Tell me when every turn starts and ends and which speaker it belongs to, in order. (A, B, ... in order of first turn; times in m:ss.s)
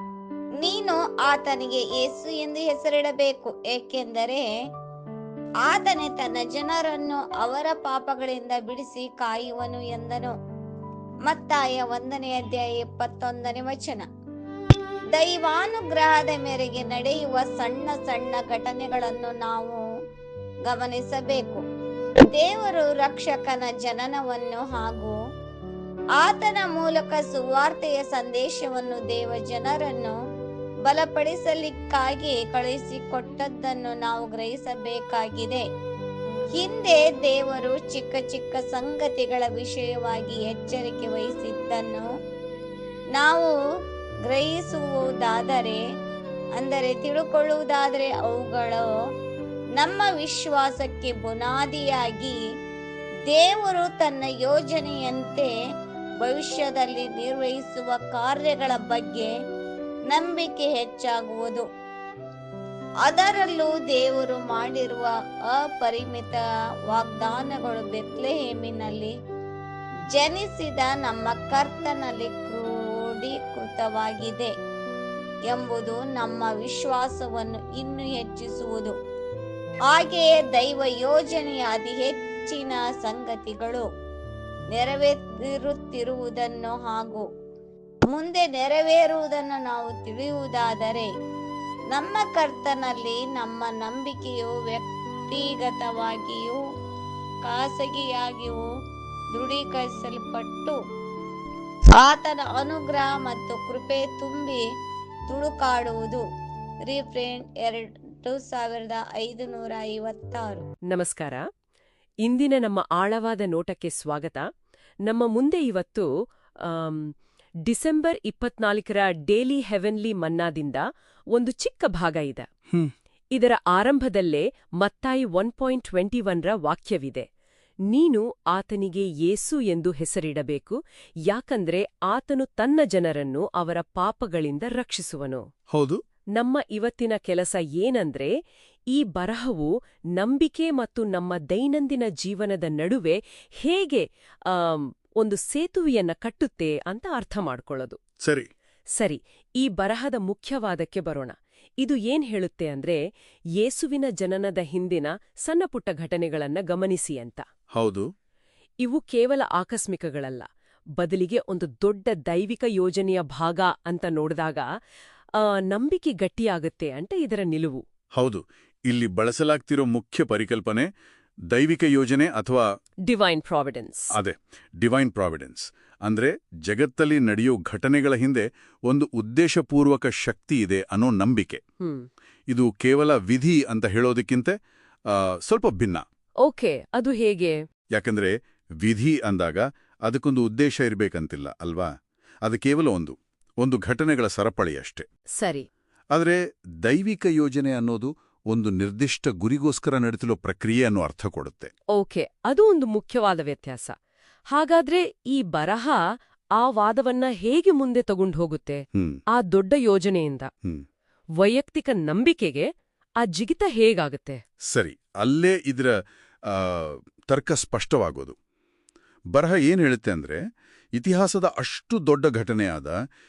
0:00.6-0:04.5 A
0:05.7-0:10.3 A
0:11.3-0:14.1 A
0:15.1-0:19.8 A
0:20.7-0:21.6 A
0:22.3-0:25.2 A
0:26.2-0:30.2 A
0:30.9-0:35.6 A
0:36.6-0:42.1 A
0:43.2-0:43.5 A
0:44.3-0:45.8 A
0:46.6-0:48.8 A
0:49.8-0:52.4 A
0:53.3-0:55.5 A
0:56.2-0:59.3 A
1:00.1-1:01.6 A
1:03.0-1:06.4 A
1:06.9-1:09.1 A
1:10.1-1:14.5 A
1:15.5-1:18.9 A
1:19.9-1:23.8 A
1:24.7-1:27.2 A
1:28.1-1:31.1 A
1:31.9-1:36.6 A
1:37.5-1:38.6 A
1:39.3-1:40.8 A
1:42.0-1:44.6 A
1:45.3-1:46.2 A
1:46.9-1:50.6 A
1:50.9-1:51.4 B
1:52.2-1:54.4 B
1:55.1-1:56.1 B
1:56.6-1:57.1 B
1:57.7-2:02.5 B
2:03.3-2:07.3 B
2:07.9-2:10.8 B
2:11.3-2:15.4 B
2:15.7-2:16.0 C
2:16.4-2:18.3 B
2:18.9-2:28.0 B
2:28.2-2:28.5 C
2:29.0-2:33.0 B
2:33.6-2:37.4 B
2:37.7-2:38.1 C
2:38.8-2:40.4 B
2:41.0-2:44.6 B
2:45.4-2:47.8 B
2:48.2-2:50.9 C
2:51.5-2:52.6 C
2:53.1-2:54.1 B
2:54.1-3:01.6 C
3:02.5-3:04.6 C
3:05.1-3:06.0 C
3:06.4-3:07.6 B
3:07.9-3:11.9 C
3:12.4-3:15.1 C
3:15.4-3:15.7 B
3:16.1-3:21.7 C
3:22.0-3:23.9 B
3:24.5-3:26.0 B
3:26.6-3:30.5 B
3:28.9-3:29.2 C
3:31.4-3:32.7 B
3:33.2-3:34.4 B
3:34.7-3:38.4 C
3:39.3-3:40.4 C
3:41.0-3:43.0 C